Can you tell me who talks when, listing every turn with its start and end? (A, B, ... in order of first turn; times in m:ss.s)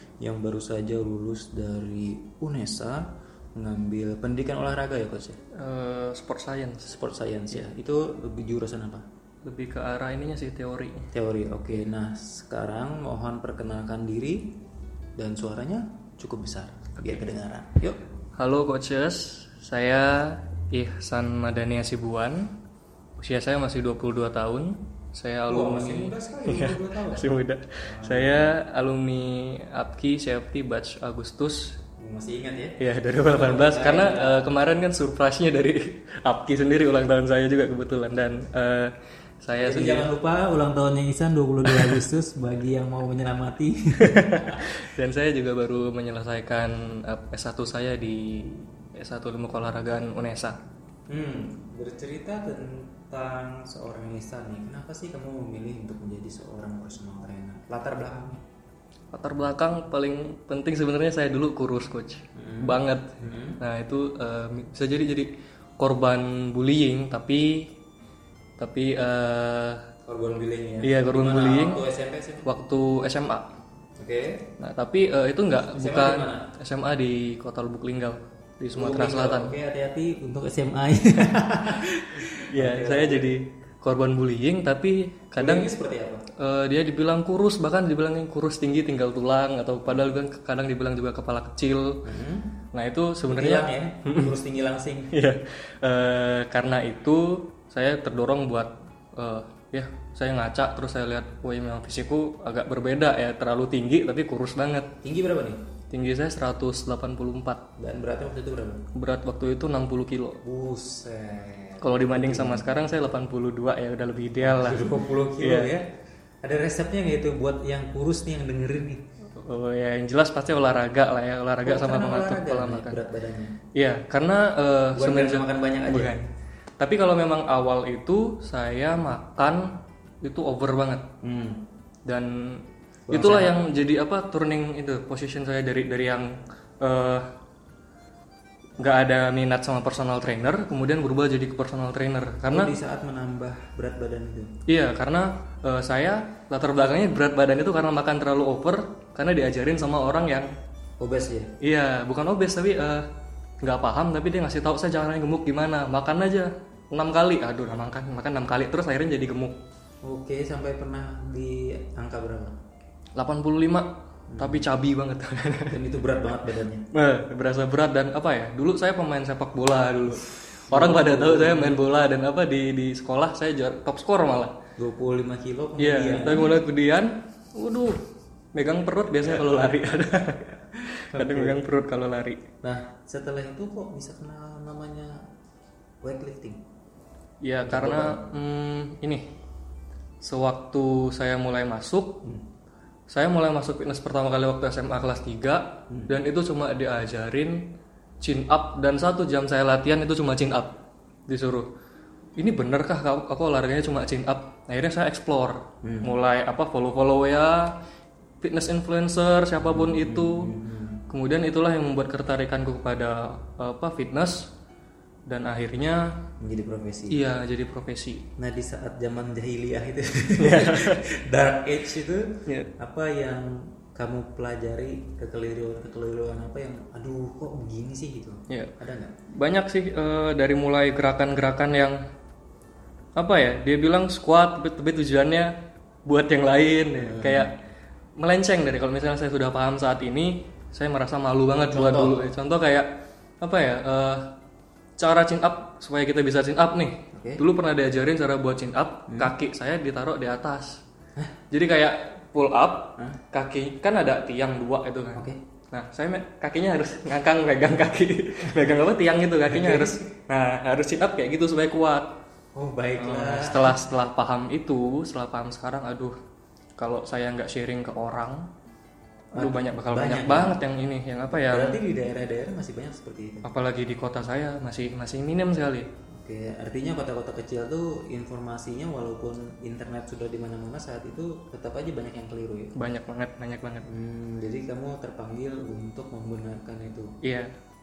0:00.2-0:05.4 A
0:05.5-0:07.0 B
0:06.9-0:09.0 A
0:09.4-0:11.1 B
0:11.1-0:14.6 A
0:15.2-0:18.0 A
0:18.4-0:22.5 B
0:23.2-0:31.8 B
0:25.5-0:28.6 A
0:32.0-0:34.4 A
0:32.8-0:38.9 B
0:39.4-0:40.1 B
0:39.6-0:44.7 A
0:41.6-0:42.0 B
0:44.0-0:50.6 B
0:51.1-0:58.4 A
0:59.1-1:07.7 B
1:02.4-1:03.6 A
1:08.6-1:09.8 B
1:10.1-1:12.5 A
1:10.8-1:11.9 B
1:12.4-1:13.5 B
1:14.0-1:14.5 A
1:14.6-1:19.6 B
1:15.5-1:16.5 A
1:18.8-1:23.3 A
1:22.5-1:25.7 B
1:25.4-1:26.2 A
1:26.4-1:32.0 B
1:32.0-1:32.5 A
1:32.7-1:34.4 B
1:33.3-1:35.2 A
1:35.1-1:44.9 B
1:45.0-1:45.6 A
1:45.9-1:47.6 B
1:47.8-1:48.8 A
1:48.9-1:50.4 B
1:50.4-1:52.8 A
1:51.8-1:55.7 B
1:54.4-1:55.9 A
1:56.4-1:59.0 A
1:59.4-2:03.0 B
2:01.6-2:03.5 A
2:03.8-2:06.3 B
2:04.9-2:06.2 A
2:06.8-2:11.1 B
2:11.2-2:11.6 A
2:12.1-2:17.3 B
2:13.1-2:13.6 A
2:18.8-2:22.7 B
2:22.4-2:24.5 A
2:24.7-2:30.5 B
2:31.0-2:31.5 A
2:31.6-2:33.1 B
2:33.6-2:39.6 B
2:40.0-2:42.6 A
2:43.2-2:45.8 B
2:44.3-2:44.7 A
2:45.7-2:46.9 A
2:46.9-2:54.6 B
2:50.7-2:51.8 A
2:54.8-2:56.6 A
2:55.8-2:58.0 B
2:58.5-3:02.4 B
2:59.2-3:00.1 A
3:01.1-3:01.6 A
3:02.6-3:05.2 A
3:06.0-3:06.6 A
3:07.4-3:09.3 B
3:07.6-3:08.3 A
3:10.2-3:12.2 B
3:13.1-3:17.6 B
3:15.9-3:16.2 A
3:18.2-3:21.7 B
3:22.4-3:27.8 B
3:25.8-3:26.1 A
3:28.4-3:30.5 B
3:29.6-3:31.0 A
3:31.1-3:34.5 B
3:35.3-3:36.2 B
3:36.4-3:37.2 A
3:37.1-3:38.3 B
3:38.4-3:49.1 A
3:40.4-3:41.0 B
3:42.5-3:42.7 B
3:49.3-3:52.0 B
3:53.2-3:55.5 B
3:56.1-3:57.5 B
3:57.0-3:57.5 A
3:58.2-4:04.3 B
4:01.7-4:02.2 A
4:05.0-4:10.8 B
4:07.1-4:07.4 A
4:09.1-4:09.4 A
4:11.5-4:22.2 B
4:15.2-4:15.4 A
4:19.5-4:20.1 A
4:22.6-4:23.9 A
4:23.0-4:26.2 B
4:26.8-4:28.5 B
4:29.3-4:31.8 B
4:29.4-4:30.6 A
4:31.3-4:33.5 A
4:33.4-4:35.9 B
4:36.1-4:42.7 A
4:42.8-4:43.9 B
4:43.9-4:47.1 A
4:47.2-4:47.5 B